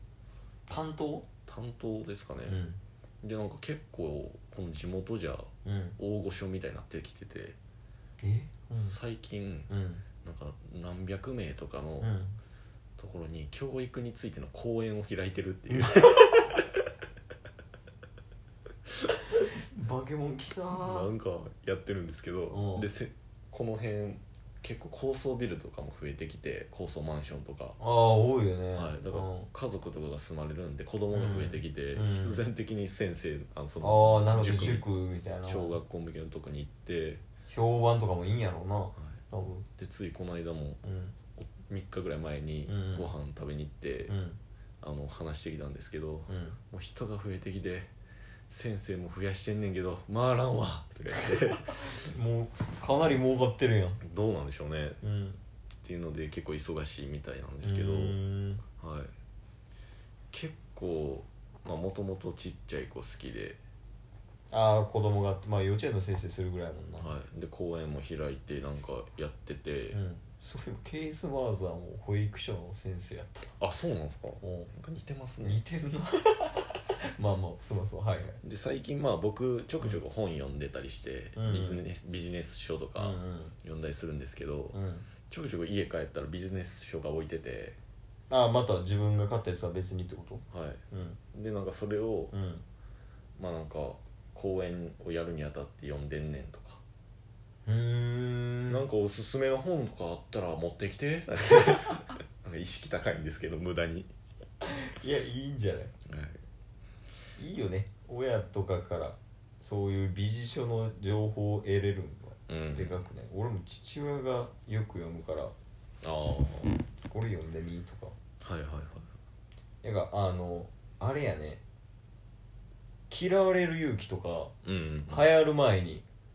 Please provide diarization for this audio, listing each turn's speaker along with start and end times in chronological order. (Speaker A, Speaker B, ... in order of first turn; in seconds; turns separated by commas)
Speaker A: 0.7-1.3, Speaker B: 1.4-2.6, Speaker A: 2.5-2.8, Speaker B: 3.2-7.6, Speaker A: 5.6-6.0, Speaker A: 8.2-9.0, Speaker B: 8.8-9.7, Speaker A: 9.7-10.0, Speaker B: 10.2-12.1, Speaker A: 12.0-12.3, Speaker B: 13.0-16.6, Speaker A: 15.7-16.3, Speaker A: 19.4-21.1, Speaker B: 20.7-27.8, Speaker A: 22.5-22.9, Speaker A: 27.8-29.5, Speaker B: 28.7-34.9, Speaker A: 31.1-32.4, Speaker A: 33.8-35.8, Speaker B: 35.4-37.2, Speaker A: 37.5-39.7, Speaker B: 39.8-40.8, Speaker A: 40.8-41.1, Speaker B: 41.4-44.1, Speaker A: 42.6-43.1, Speaker A: 44.1-44.4, Speaker B: 44.8-47.9, Speaker A: 46.3-46.6, Speaker B: 48.5-52.0, Speaker A: 51.6-54.0, Speaker B: 54.0-55.0, Speaker A: 55.0-55.4, Speaker B: 55.8-58.2, Speaker A: 57.6-58.6, Speaker B: 58.8-59.1, Speaker B: 60.3-63.6, Speaker A: 64.5-67.1, Speaker B: 67.0-70.0, Speaker A: 69.9-73.5, Speaker B: 73.6-75.6, Speaker A: 74.4-74.7, Speaker A: 75.4-78.4, Speaker B: 78.1-84.8, Speaker A: 81.3-81.8, Speaker A: 83.0-83.5, Speaker A: 84.7-85.1, Speaker B: 85.3-87.8, Speaker A: 88.3-91.2, Speaker B: 90.5-90.8, Speaker B: 91.3-92.3, Speaker A: 92.3-92.6, Speaker B: 93.4-96.8, Speaker A: 97.7-98.8, Speaker B: 98.7-104.1, Speaker A: 104.6-105.9, Speaker B: 106.1-106.4, Speaker A: 107.4-115.5, Speaker B: 112.5-113.0, Speaker B: 116.0-116.8, Speaker A: 117.1-118.2, Speaker B: 118.4-119.1, Speaker A: 119.8-121.6, Speaker A: 123.1-124.5, Speaker B: 124.6-125.3, Speaker A: 125.1-126.0